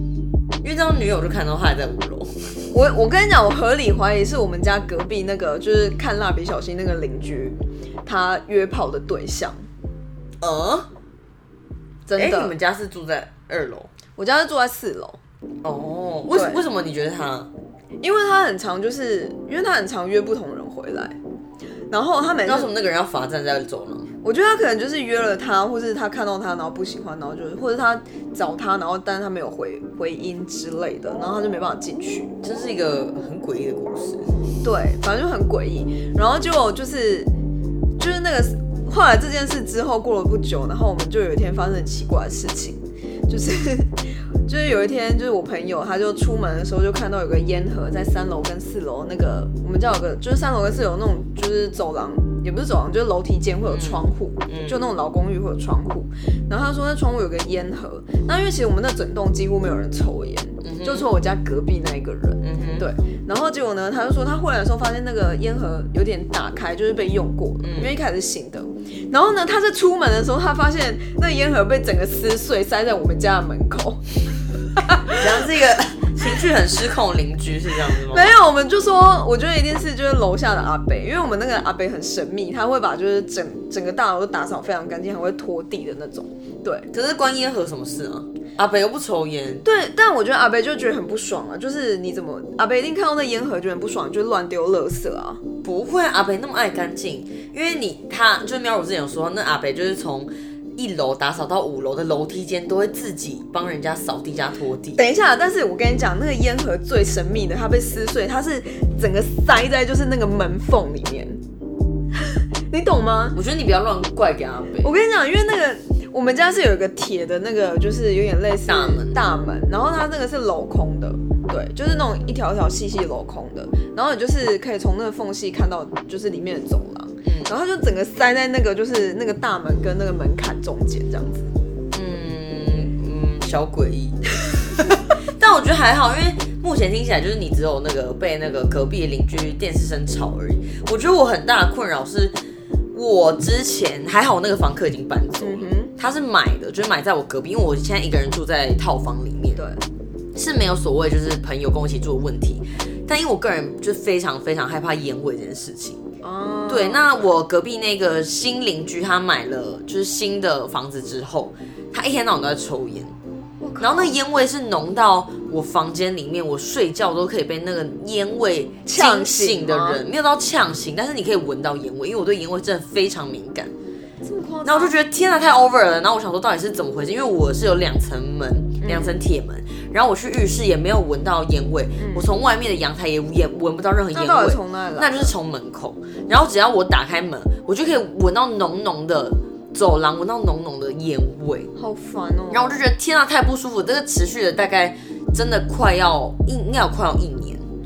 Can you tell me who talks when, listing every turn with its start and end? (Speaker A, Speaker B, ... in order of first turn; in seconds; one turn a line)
Speaker A: 0.6-2.7
Speaker B: 2.7-9.7
Speaker A: 10.4-10.9
Speaker B: 12.1-12.6
Speaker A: 12.1-13.9
Speaker B: 14.2-15.2
Speaker A: 15.6-17.5
Speaker B: 16.3-16.6
Speaker B: 18.0-21.2
Speaker B: 21.9-22.7
Speaker A: 22.5-24.1
Speaker B: 24.2-32.3
Speaker A: 32.4-34.3
Speaker B: 34.6-37.3
Speaker B: 38.0-74.2
Speaker A: 53.7-54.8
Speaker A: 60.6-61.1
Speaker A: 62.4-62.9
Speaker A: 67.6-67.9
Speaker B: 74.8-75.5
Speaker A: 75.1-78.3
Speaker B: 77.9-86.9
Speaker A: 86.9-89.7
Speaker B: 89.6-95.4
Speaker A: 95.6-105.0
Speaker B: 105.0-111.4
Speaker B: 112.2-113.4
Speaker A: 113.3-114.9
Speaker B: 114.8-131.5
Speaker A: 118.7-119.2
Speaker A: 127.2-127.5
Speaker A: 131.9-142.4
Speaker A: 142.9-149.6
Speaker B: 145.4-145.9
Speaker B: 149.6-149.8
Speaker A: 150.3-156.0
Speaker B: 156.2-157.3
Speaker A: 156.7-163.2
Speaker B: 163.6-164.2
Speaker A: 163.8-173.7
Speaker B: 168.9-170.0
Speaker B: 174.2-174.9
Speaker A: 174.7-191.7
Speaker B: 178.8-179.2
Speaker B: 182.0-182.3
Speaker B: 184.1-185.3
Speaker B: 191.8-192.8
Speaker A: 192.5-197.7